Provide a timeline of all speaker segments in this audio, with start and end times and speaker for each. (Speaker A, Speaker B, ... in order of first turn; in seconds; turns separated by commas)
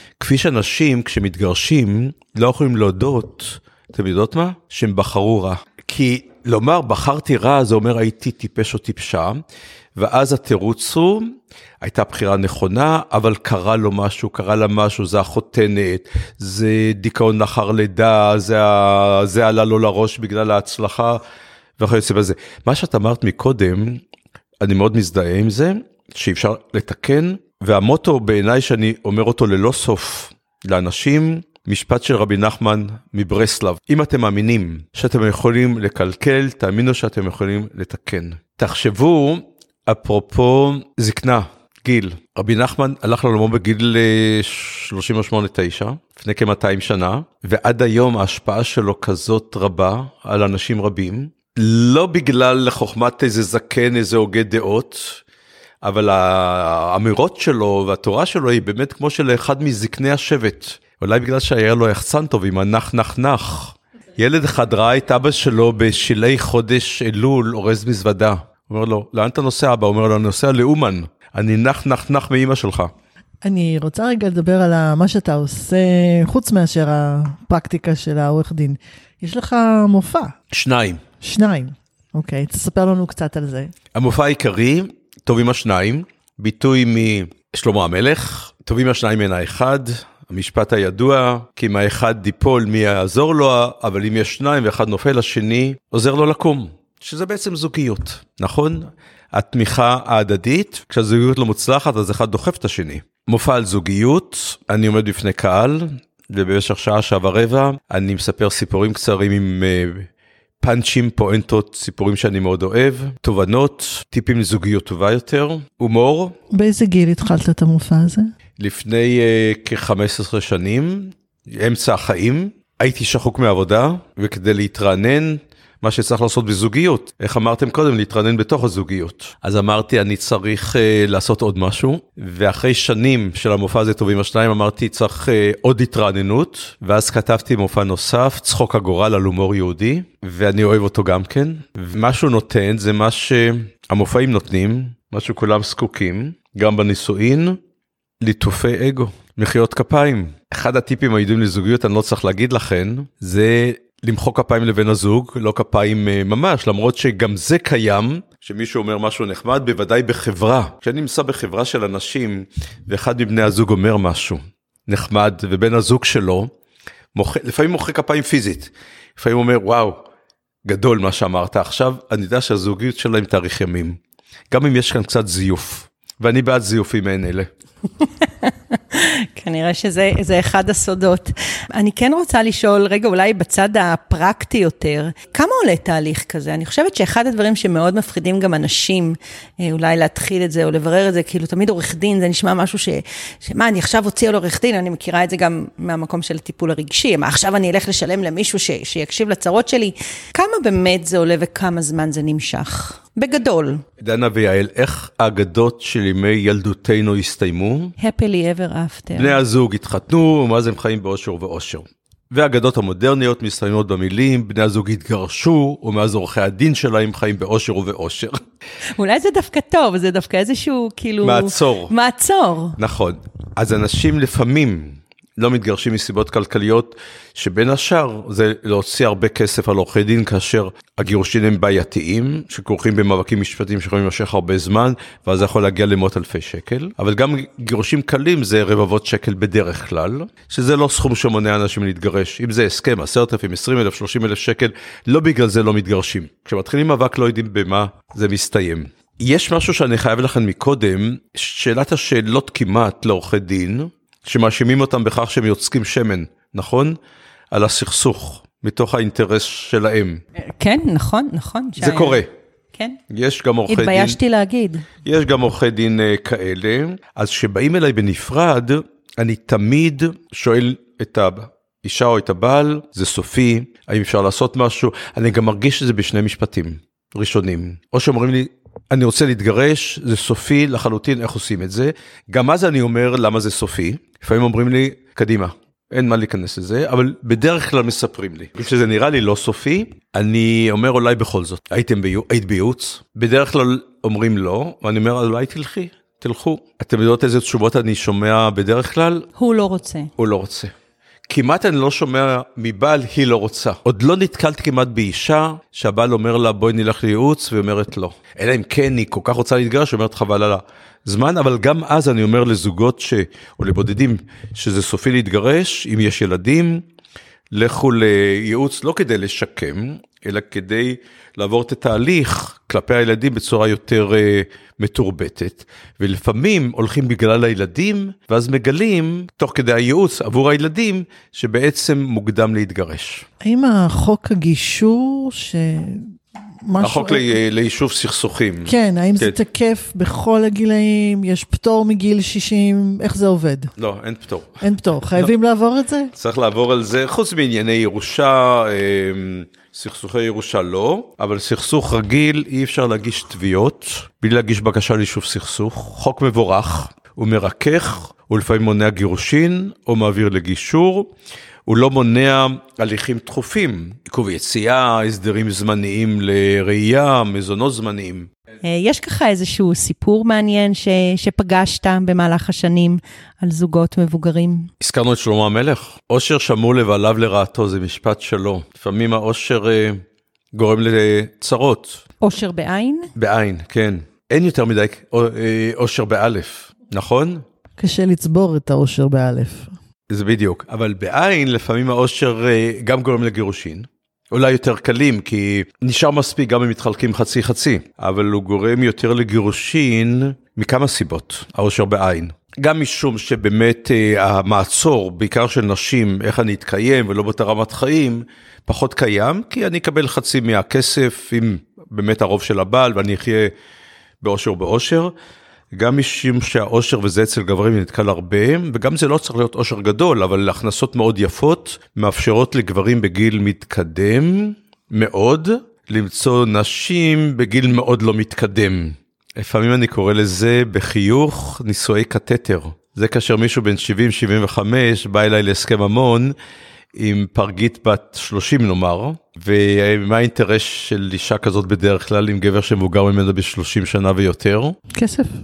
Speaker A: 0.2-9.4, Speaker A: 10.0-21.2, Speaker A: 21.8-24.0, Speaker A: 24.6-55.2, Speaker A: 55.8-72.9, Speaker B: 73.4-80.4, Speaker A: 80.5-81.0, Speaker B: 81.2-83.7, Speaker A: 83.9-110.1, Speaker A: 110.6-116.4, Speaker B: 116.5-118.3, Speaker A: 118.6-147.6, Speaker A: 148.2-166.5, Speaker A: 167.2-170.1, Speaker A: 170.7-174.0, Speaker A: 174.5-177.5, Speaker C: 178.0-203.8, Speaker A: 204.0-207.9, Speaker C: 208.0-209.4, Speaker A: 209.2-218.4, Speaker C: 219.0-222.8, Speaker A: 221.2-221.9, Speaker A: 222.8-257.0, Speaker A: 257.5-260.2, Speaker C: 260.4-262.2, Speaker A: 261.8-262.3, Speaker C: 262.7-263.0, Speaker A: 263.1-264.2, Speaker C: 263.7-264.9, Speaker A: 265.0-299.3, Speaker C: 299.4-300.1, Speaker A: 300.2-300.7, Speaker A: 301.3-316.9, Speaker A: 317.5-333.3, Speaker B: 333.4-337.4, Speaker A: 336.8-339.4, Speaker B: 338.6-343.7, Speaker A: 343.8-344.6, Speaker B: 344.6-346.1, Speaker A: 346.2-361.1, Speaker A: 361.7-368.3, Speaker C: 368.6-374.7, Speaker A: 374.8-380.0, Speaker A: 380.5-382.0, Speaker C: 382.2-383.1, Speaker A: 383.1-387.4, Speaker B: 387.8-389.7, Speaker A: 390.1-413.5, Speaker A: 414.2-415.1, Speaker A: 415.7-436.4, Speaker A: 436.9-444.8, Speaker B: 444.9-445.3